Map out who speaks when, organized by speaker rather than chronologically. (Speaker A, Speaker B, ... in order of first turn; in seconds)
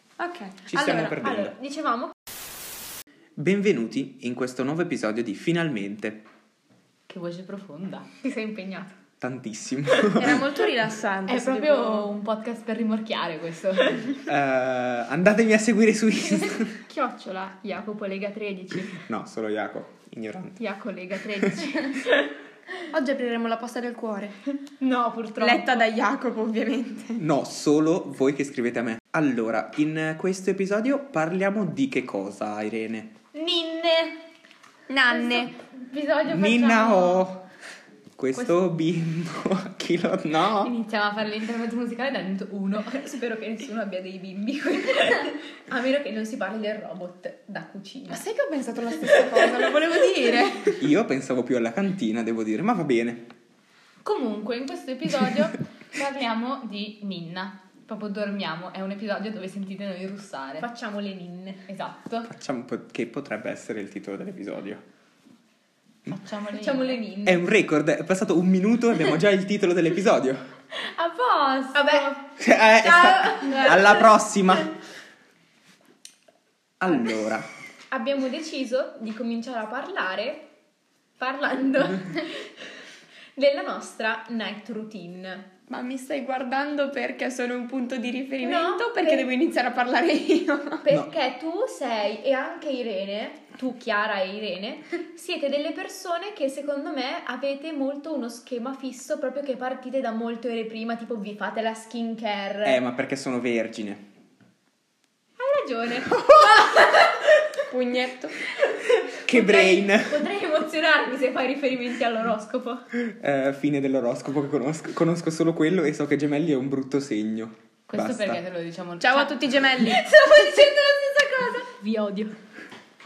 Speaker A: 0.2-1.2, 10.2-12.1, 22.9-24.4, 25.4-27.2, 34.9-35.5, 48.1-50.8, 85.7-90.8, 107.7-108.3, 119.0-120.1
Speaker B: 0.7-1.5, 3.4-6.2, 9.2-10.4, 14.2-16.8, 18.9-20.6, 21.3-21.8, 27.2-33.1, 36.2-37.5, 38.2-40.7, 50.8-53.3, 62.2-64.8, 67.2-70.5, 72.4-74.8, 76.8-77.5, 102.6-104.0, 109.2-110.2, 113.0-118.4
Speaker C: 1.2-2.1, 8.2-9.0, 11.3-12.4, 16.2-19.0, 20.6-22.3, 24.8-25.9, 33.3-34.1, 35.1-37.3, 42.8-48.2, 54.5-55.5, 60.6-61.6, 66.6-67.4, 70.8-74.1, 77.9-80.5, 81.2-82.5, 83.3-85.5, 88.4-89.3, 90.8-102.8, 105.4-107.5, 109.1-112.8, 119.7-122.3
Speaker D: 7.1-8.1, 11.7-14.0, 40.6-43.0, 54.0-55.4, 55.9-60.7, 61.7-62.3, 66.1-67.0, 71.5-72.1, 117.9-119.3